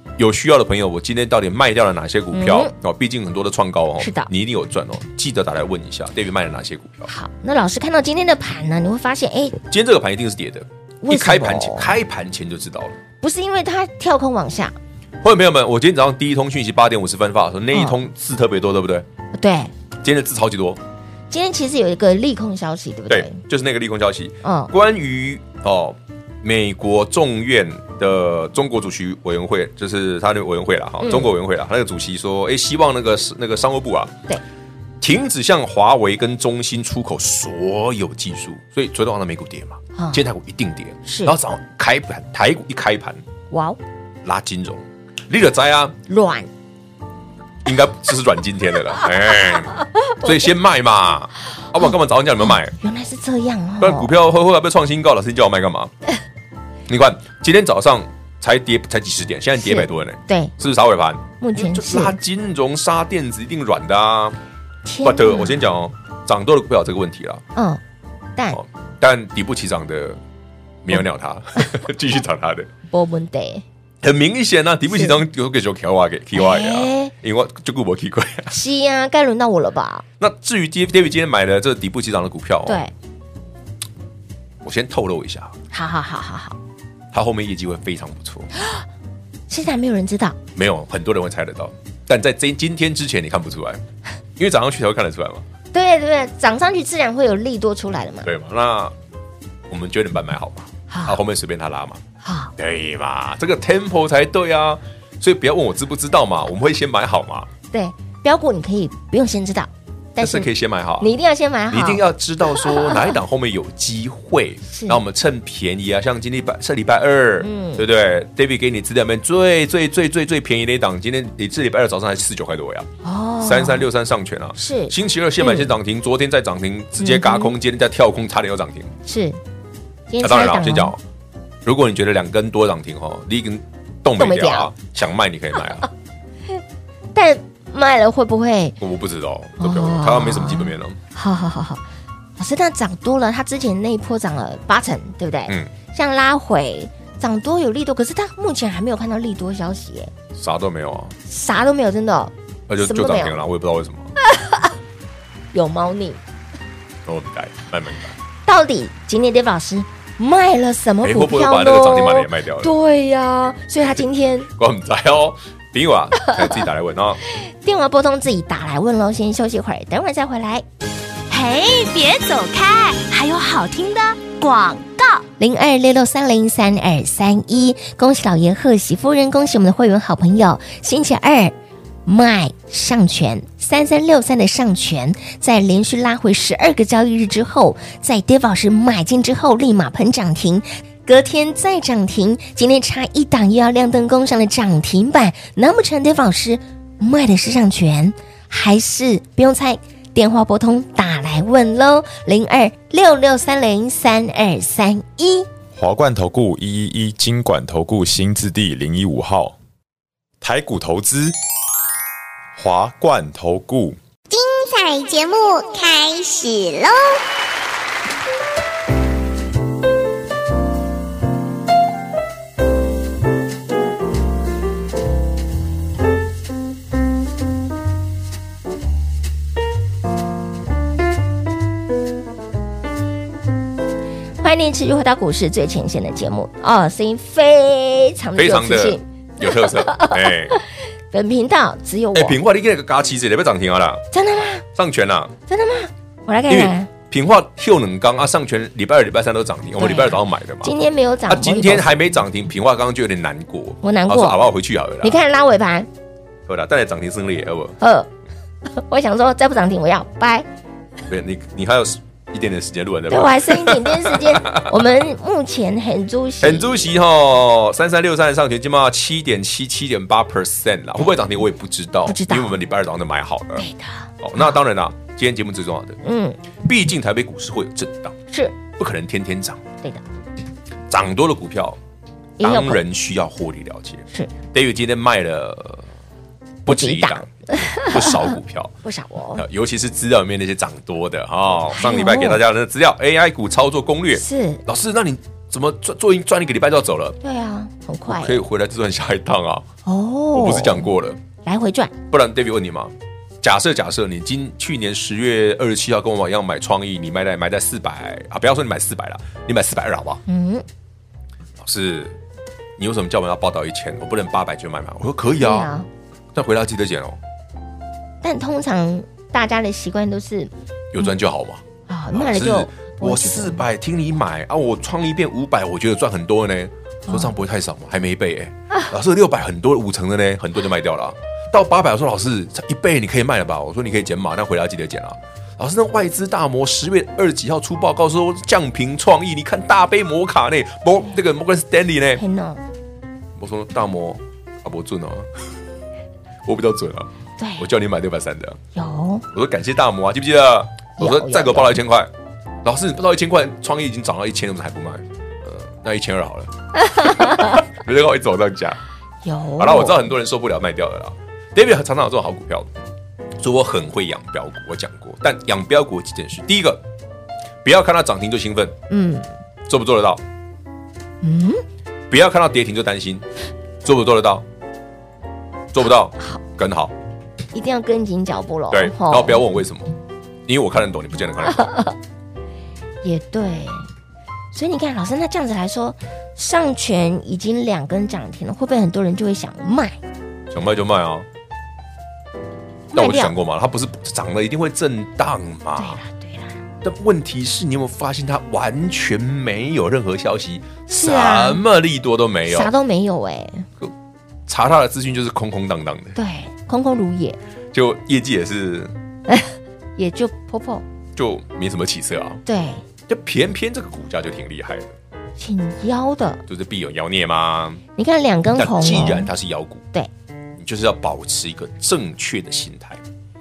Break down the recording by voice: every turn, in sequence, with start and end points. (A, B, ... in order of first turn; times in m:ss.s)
0:00.2-0:07.1 A
0:02.3-0:02.7 B
0:04.0-0:04.3 B
0:07.1-0:09.6 B
0:09.7-0:13.0 A
0:11.0-0:11.9 B
0:13.2-0:14.8 B
0:15.2-0:19.0 A
0:17.7-0:18.0 B
0:19.3-0:19.7 B
0:20.0-0:20.8 A
0:21.3-0:23.4 B
0:23.1-0:34.2 A
0:24.4-0:24.7 B
0:31.0-0:31.3 B
0:35.0-0:43.2 A
0:40.0-0:40.2 B
0:41.0-0:41.3 B
0:43.5-0:43.8 B
0:44.2-0:46.0 A
0:46.1-0:46.5 B
0:47.6-0:52.8 A
0:50.0-0:50.5 B
0:52.8-0:54.1 B
0:53.8-0:55.9 A
0:56.9-1:04.4 A
0:59.6-1:00.5 B
1:01.4-1:02.2 B
1:04.8-1:05.6 B
1:05.0-1:07.4 A
1:07.5-1:07.8 B
1:08.5-1:10.2 A
1:10.8-1:12.7 A
1:12.9-1:13.6 B
1:14.0-1:18.5 A
1:14.9-1:15.2 B
1:16.3-1:17.1 B
1:18.5-1:20.0 B
1:20.2-1:22.8 A
1:22.6-1:22.9 B
1:24.6-1:25.5 A
1:25.7-1:26.6 B
1:27.1-1:28.5 A
1:28.6-1:28.8 B
1:29.5-1:30.4 B
1:30.6-1:33.8 A
1:34.4-1:35.4 A
1:35.7-1:38.3 B
1:38.2-1:38.9 A
1:39.7-1:42.0 A
1:40.9-1:41.2 B
1:42.2-1:42.5 B
1:42.6-1:47.5 A
1:47.7-1:50.5 B
1:50.2-1:51.1 A
1:51.0-1:53.2 B
1:51.7-2:02.9 A
1:54.7-1:55.0 B
1:57.4-1:57.8 B
2:03.0-2:03.8 B
2:03.4-2:08.9 A
2:04.6-2:05.7 B
2:07.0-2:07.5 B
2:09.0-2:09.4 B
2:10.1-2:10.9 B
2:10.2-2:11.0 A
2:11.6-2:15.9 A
2:14.2-2:14.7 B
2:17.1-2:18.8 B
2:18.8-2:21.0 A
2:19.6-2:21.8 B
2:22.4-2:30.1 B
2:30.3-2:31.1 A
2:31.3-2:33.4 B
2:32.7-2:34.1 A
2:34.3-2:34.7 B
2:35.5-2:36.2 B
2:37.0-2:38.2 A
2:38.4-2:44.5 B
2:41.0-2:42.7 A
2:44.6-2:47.2 A
2:47.4-2:50.6 B
2:51.3-2:55.2 C
2:55.4-3:01.5 B
3:02.0-3:25.5 B
3:25.7-3:29.5 D
3:30.4-3:31.3 D
3:32.5-3:34.0 D
3:34.3-3:37.2 E
3:54.4-4:02.4 B
3:58.4-4:00.6 A
4:02.1-4:04.0 A
4:04.1-4:04.6 B
4:04.7-4:05.4 A
4:05.5-4:06.9 B
4:06.5-4:10.7 A
4:09.8-4:12.0 B
4:11.3-4:15.2 A
4:13.8-4:14.4 B
4:15.0-4:15.9 B
4:16.5-4:17.8 A
4:17.8-4:18.1 B
4:18.7-4:20.5 B
4:21.1-4:24.8 A
4:23.1-4:26.9 B
4:26.4-4:33.7 A
4:32.0-4:32.6 B
4:33.6-4:34.5 B
4:34.2-4:36.0 A
4:36.0-4:36.4 B
4:36.6-4:38.2 A
4:38.3-4:38.6 B
4:38.7-4:39.6 A
4:40.9-4:41.8 A
4:42.4-4:42.8 B
4:42.4-4:45.8 A
4:46.6-4:48.7 A
4:46.6-4:49.4 B
4:49.4-4:57.2 A
4:51.7-4:52.4 B
4:54.1-4:54.6 B
4:57.2-4:58.4 B
4:58.1-4:59.6 A
4:59.8-5:00.9 B
5:00.3-5:01.2 A
5:01.4-5:01.9 B
5:02.1-5:10.2 A
5:10.3-5:10.6 B
5:11.6-5:12.1 A
5:12.8-5:15.7 A
5:15.4-5:15.9 B
5:16.3-5:17.2 A
5:18.2-5:20.5 B
5:20.9-5:42.2 A
5:21.9-5:23.6 B
5:27.1-5:27.3 B
5:42.2-5:42.6 B
5:43.4-5:45.3 A
5:46.4-5:48.6 A
5:47.4-5:47.7 B
5:48.7-5:49.2 B
5:49.3-5:52.1 A
5:51.0-5:51.8 B
5:52.6-5:58.8 A
5:56.8-5:57.6 B
5:59.2-6:00.1 B
5:59.6-6:02.7 A
6:03.4-6:06.8 A
6:07.6-6:08.8 A
6:08.9-6:09.3 B
6:09.7-6:10.2 A
6:11.2-6:11.6 B
6:12.1-6:13.2 A
6:13.8-6:14.4 A
6:15.7-6:16.9 A
6:17.5-6:19.4 B
6:18.7-6:19.9 A
6:20.4-6:21.7 A
6:21.6-6:21.9 B
6:23.0-6:23.8 B
6:24.5-6:30.0 B
6:30.5-6:31.2 A
6:32.9-6:33.3 B
6:32.9-6:36.0 A
6:35.8-6:36.6 B
6:36.8-6:42.7 A
6:40.9-6:41.6 B
6:42.5-6:43.7 B
6:44.5-6:46.2 A
6:46.2-6:47.4 B
6:47.7-6:48.9 A
6:49.3-6:50.8 B
6:51.1-6:52.4 A
6:52.4-6:52.8 B
6:53.1-6:54.9 A
6:55.4-6:56.4 B
6:56.5-6:57.8 A
6:58.0-6:59.3 B
6:58.6-6:59.8 A
7:00.6-7:03.0 A